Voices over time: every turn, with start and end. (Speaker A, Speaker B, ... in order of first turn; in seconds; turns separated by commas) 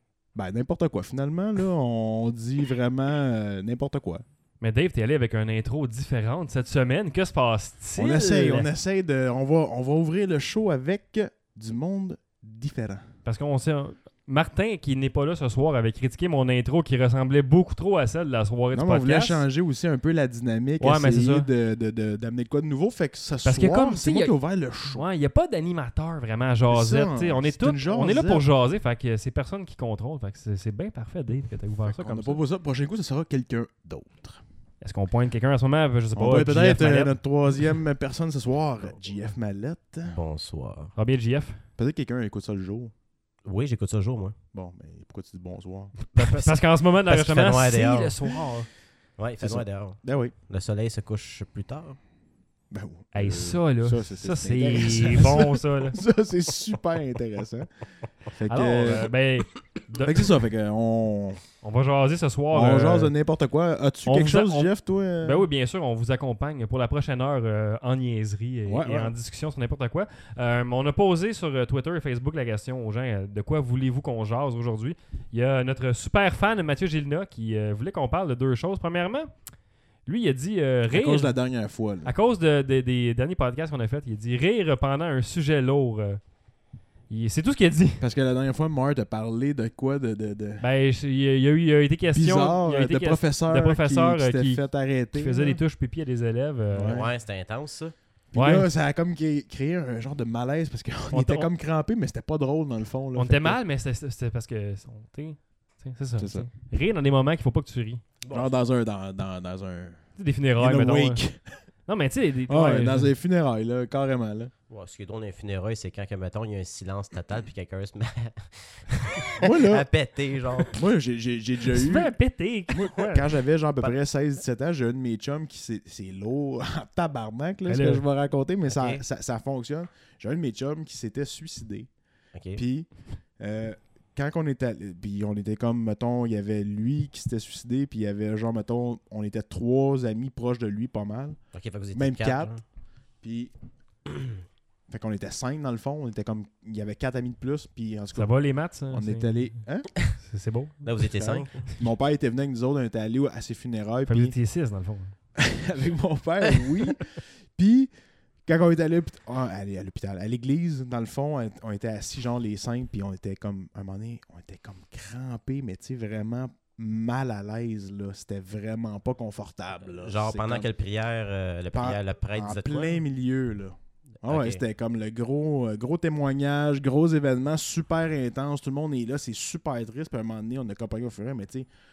Speaker A: 0.3-4.2, Speaker B: 4.6-8.7, Speaker A: 8.0-13.0, Speaker B: 13.2-19.4, Speaker A: 18.7-25.0, Speaker B: 20.8-21.5, Speaker B: 23.4-24.3, Speaker B: 24.9-32.4, Speaker A: 26.7-28.4, Speaker A: 31.8-34.4, Speaker B: 34.8-37.2, Speaker A: 36.1-40.2, Speaker C: 40.0-40.9, Speaker B: 41.0-41.6, Speaker A: 41.8-42.9, Speaker C: 43.4-44.3, Speaker A: 44.5-45.9, Speaker C: 46.2-48.3, Speaker B: 46.2-48.7, Speaker C: 49.2-52.0, Speaker A: 49.4-50.3, Speaker A: 52.7-57.7, Speaker B: 53.1-56.0, Speaker A: 58.2-59.1, Speaker B: 58.5-60.3, Speaker A: 60.0-61.4, Speaker B: 61.6-63.1, Speaker A: 62.5-65.5, Speaker B: 64.1-79.4, Speaker A: 68.7-69.1, Speaker B: 80.0-81.3, Speaker A: 80.9-82.1, Speaker B: 82.0-86.2, Speaker B: 87.1-88.0, Speaker A: 88.0-90.6, Speaker B: 90.6-97.0, Speaker A: 92.1-95.6, Speaker A: 96.7-97.1, Speaker C: 96.9-97.9, Speaker A: 98.3-103.6, Speaker B: 98.4-98.7, Speaker B: 101.1-101.5, Speaker B: 103.2-108.0, Speaker A: 106.2-106.5, Speaker C: 108.2-108.5, Speaker A: 108.3-110.0, Speaker B: 110.2-111.2, Speaker A: 110.6-111.4, Speaker B: 111.9-113.1, Speaker A: 112.5-114.5, Speaker C: 114.7-120.7, Speaker A: 119.4-119.9, Speaker A: 120.7-122.1, Speaker B: 121.7-123.3, Speaker A: 122.7-131.9, Speaker B: 127.7-128.0, Speaker C: 128.7-129.0, Speaker C: 132.3-132.6, Speaker A: 132.6-141.4, Speaker C: 141.5-142.6, Speaker A: 141.9-142.5, Speaker A: 143.2-143.5, Speaker A: 144.9-148.3, Speaker B: 148.1-149.5, Speaker A: 148.9-149.9, Speaker B: 150.2-151.8, Speaker C: 150.8-151.6, Speaker A: 151.8-154.3, Speaker B: 154.1-155.1, Speaker A: 155.4-157.9, Speaker A: 158.4-170.7, Speaker C: 169.9-173.0, Speaker A: 171.7-181.7, Speaker C: 174.2-174.6